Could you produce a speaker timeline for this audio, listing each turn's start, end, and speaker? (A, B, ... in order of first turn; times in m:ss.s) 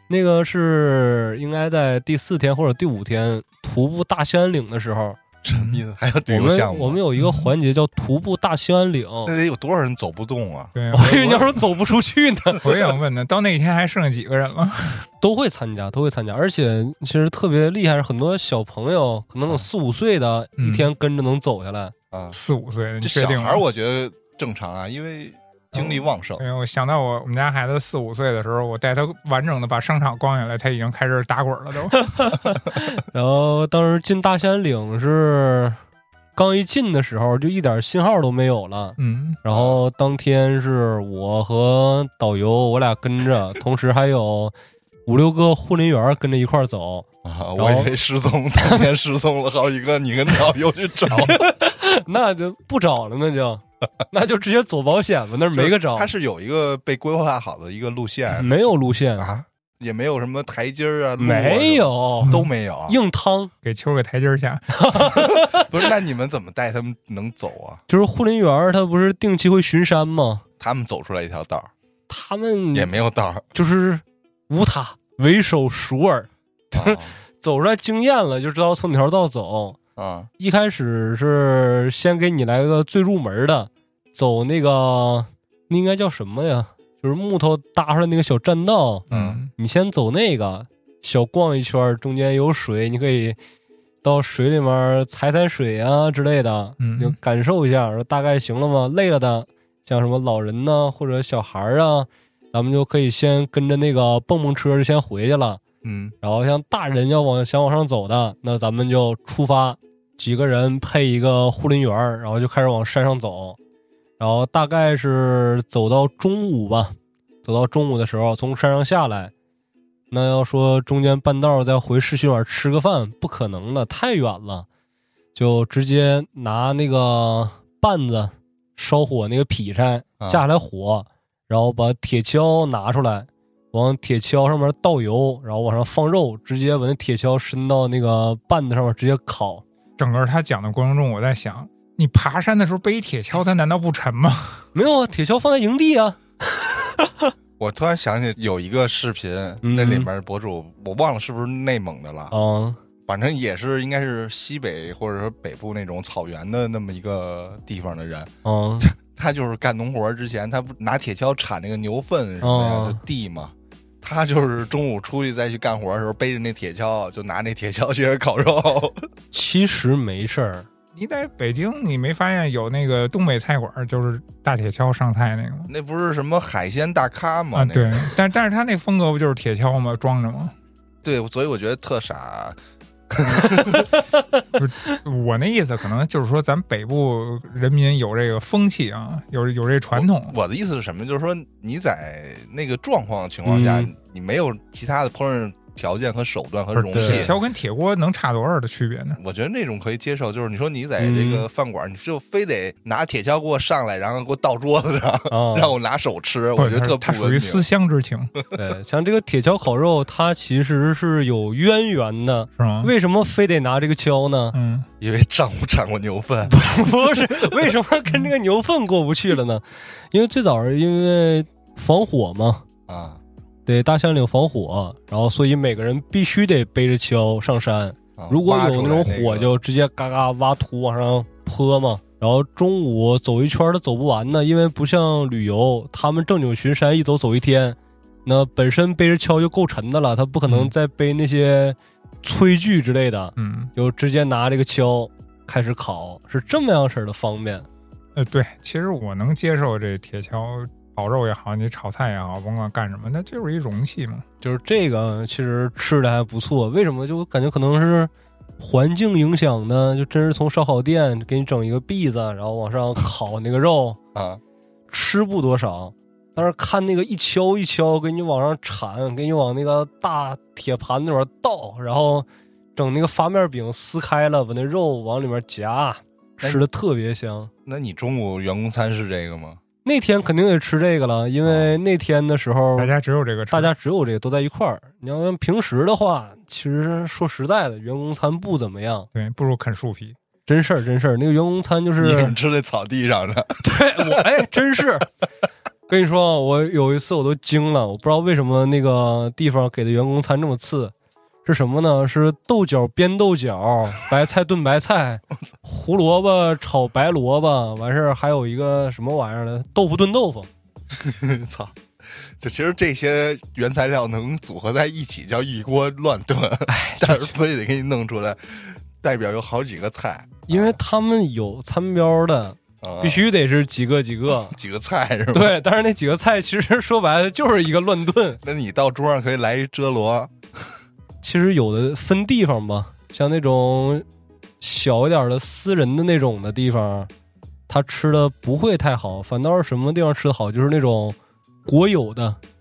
0:00.1-0:05.2 A
0:05.4-0:07.0 B
0:05.5-0:05.8 C
0:06.3-0:09.3 A
0:07.2-0:07.5 C
0:09.2-0:11.6 B
0:10.7-0:11.5 C
0:10.9-0:12.6 A
0:12.6-0:15.1 C
0:15.2-0:21.9 A
0:20.6-0:20.9 C
0:22.3-0:23.6 C
0:23.0-0:26.4 B
0:25.7-0:32.0 C
0:31.9-0:35.8 A
0:36.4-0:44.5 A
0:39.0-0:39.4 C
0:39.5-0:39.8 B
0:45.0-0:47.0 A
0:47.2-0:51.4 B
0:47.6-0:47.9 A
0:48.6-0:48.9 A
0:51.1-0:56.1 A
0:55.5-0:58.5 B
0:58.3-0:59.3 A
0:59.2-1:03.0 B
1:01.2-1:03.5 A
1:02.2-1:02.5 C
1:03.6-1:04.8 C
1:04.7-1:05.8 A
1:05.0-1:07.8 B
1:07.9-1:10.4 A
1:10.6-1:11.7 B
1:12.1-1:12.9 A
1:12.7-1:13.4 B
1:13.5-1:19.8 A
1:16.7-1:17.2 B
1:20.0-1:20.3 B
1:20.4-1:33.4 A
1:29.1-1:29.5 C
1:29.1-1:29.4 B
1:34.0-1:45.6 A
1:36.8-1:37.2 C
1:45.8-1:46.1 B
1:46.2-1:53.6 A
1:54.2-1:59.3 A
2:00.1-2:04.6 A
2:05.4-2:19.6 A
2:10.2-2:10.4 B
2:20.0-2:24.6 C
2:24.7-2:27.3 A
2:27.6-2:32.4 B
2:29.6-2:30.1 A
2:32.3-2:32.8 A
2:33.1-2:49.1 B
2:38.4-2:38.9 A
2:42.4-2:43.0 A
2:49.3-2:50.7 A
2:51.0-2:55.7 C
2:55.7-2:58.1 B
2:57.5-3:00.5 C
3:01.0-3:02.6 B
3:03.1-3:03.9 B
3:04.6-3:10.3 C
3:09.9-3:17.3 B
3:13.4-3:13.9 A
3:16.7-3:19.2 C
3:16.9-3:17.3 A
3:19.2-3:27.6 B
3:21.0-3:21.4 A
3:25.3-3:25.7 A
3:26.6-3:28.3 C
3:28.5-3:34.5 A
3:32.6-3:32.9 C
3:34.5-3:34.8 C
3:35.0-3:36.6 B
3:36.5-3:42.6 A
3:42.9-3:43.2 B
3:43.6-4:07.6 A
3:48.2-3:49.5 B
4:00.5-4:00.7 C
4:03.4-4:03.7 C
4:08.2-4:14.2 C
4:14.4-4:24.0 A
4:24.1-4:24.4 B
4:24.9-4:37.5 A
4:37.6-4:39.6 B
4:39.8-4:42.9 A
4:41.4-4:41.7 B
4:42.8-4:43.7 C
4:43.5-4:49.1 A
4:49.1-4:50.2 C
4:50.4-4:52.3 A
4:52.0-4:54.2 B
4:53.6-4:55.1 A
4:55.9-5:00.9 A
5:01.4-5:10.5 A
5:10.9-5:20.8 B
5:16.7-5:17.3 A
5:20.5-5:24.5 A
5:22.8-5:23.3 B
5:24.4-5:25.5 B
5:25.3-5:28.4 A
5:28.4-5:30.8 B
5:31.2-5:34.0 A
5:34.6-5:37.1 A
5:37.7-5:42.4 A